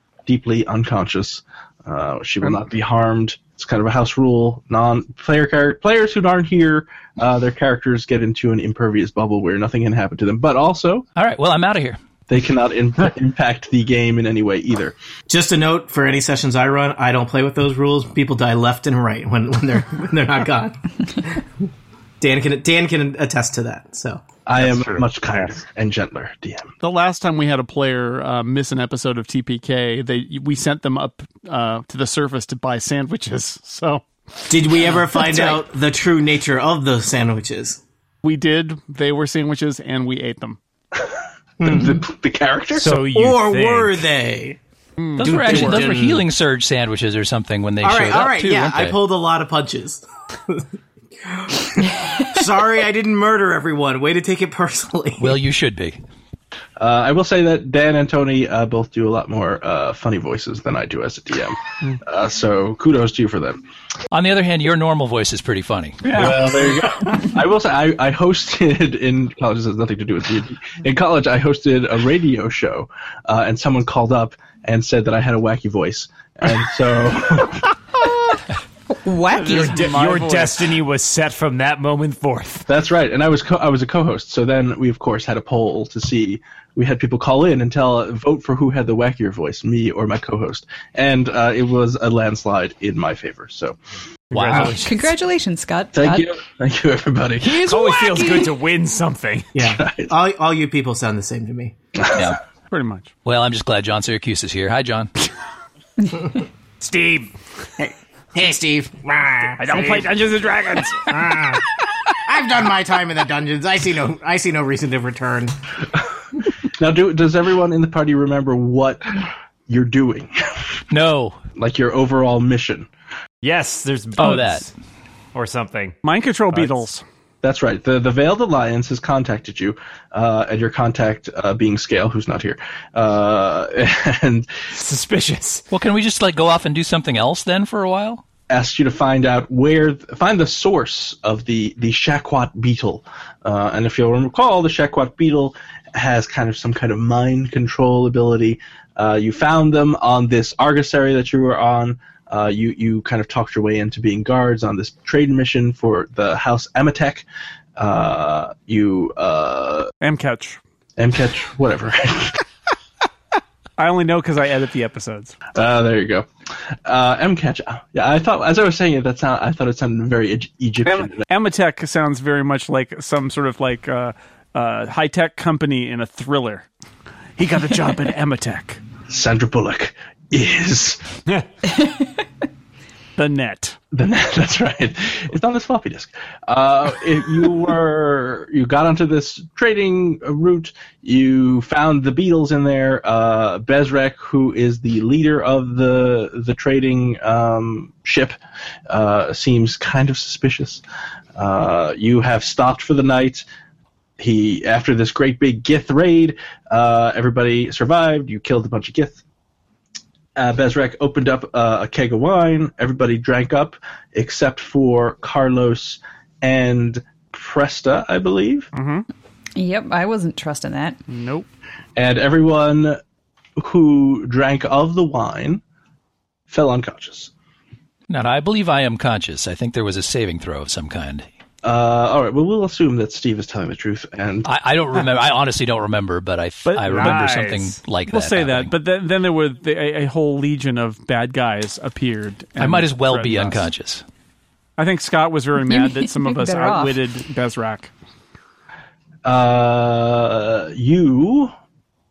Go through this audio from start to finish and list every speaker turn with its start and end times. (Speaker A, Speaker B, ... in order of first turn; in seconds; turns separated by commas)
Speaker A: 0.3-11.1, Speaker B: 11.2-12.0, Speaker A: 12.3-14.9, Speaker C: 15.3-21.4, Speaker C: 22.2-24.2, Speaker A: 24.5-26.7, Speaker D: 24.6-25.5, Speaker E: 26.8-34.0, Speaker C: 34.5-37.8, Speaker E: 38.2-40.6, Speaker C: 41.6-42.0, Speaker A: 41.6-42.9, Speaker D: 42.8-44.1, Speaker C: 42.8-44.6, Speaker E: 45.0-45.9, Speaker C: 45.2-46.2, Speaker B: 45.2-49.0, Speaker C: 47.8-50.7, Speaker C: 51.2-55.4, Speaker B: 55.2-56.0, Speaker A: 56.8-63.6, Speaker B: 64.1-66.4, Speaker E: 66.0-66.8, Speaker A: 66.1-77.8, Speaker F: 78.9-79.9, Speaker E: 79.3-80.8, Speaker D: 79.4-82.7, Speaker A: 82.7-93.8, Speaker D: 94.3-95.1, Speaker E: 94.3-94.7, Speaker F: 94.5-96.3, Speaker A: 95.9-97.7, Speaker D: 97.4-99.6, Speaker F: 97.7-98.5, Speaker C: 99.5-101.8, Speaker A: 99.8-100.1, Speaker B: 102.1-102.4, Speaker E: 102.7-103.1, Speaker B: 103.2-105.1, Speaker D: 106.8-107.3, Speaker C: 107.8-110.1, Speaker E: 109.6-111.1, Speaker C: 111.0-115.6, Speaker A: 116.7-120.8, Speaker B: 120.9-121.4, Speaker A: 121.6-122.9, Speaker D: 123.4-124.7, Speaker B: 124.2-124.6, Speaker E: 124.2-124.5, Speaker D: 125.3-126.0, Speaker E: 126.0-127.0, Speaker D: 126.5-126.8, Speaker A: 127.4-134.6, Speaker D: 134.7-135.7, Speaker B: 135.7-138.2, Speaker A: 138.5-157.3, Speaker A: 157.8-159.9, Speaker E: 160.0-160.6, Speaker A: 161.0-162.4, Speaker E: 163.8-165.4, Speaker A: 165.5-171.2, Speaker E: 170.9-176.7, Speaker E: 177.4-178.8, Speaker A: 179.1-181.1, Speaker F: 181.8-182.1, Speaker E: 183.2-183.8, Speaker A: 183.9-198.4, Speaker A: 198.9-200.8, Speaker A: 201.4-203.4, Speaker A: 204.2-209.2, Speaker A: 210.4-218.7, Speaker E: 218.7-219.1, Speaker F: 219.6-221.0, Speaker E: 221.1-221.5, Speaker A: 222.0-223.0, Speaker A: 223.6-225.6, Speaker A: 226.5-227.3, Speaker B: 228.1-231.3, Speaker A: 231.6-234.5, Speaker B: 234.4-238.7, Speaker E: 236.7-237.4, Speaker D: 236.9-237.8, Speaker E: 238.1-243.7, Speaker B: 242.6-244.0, Speaker E: 244.8-247.9, Speaker F: 245.7-247.0, Speaker A: 249.2-251.5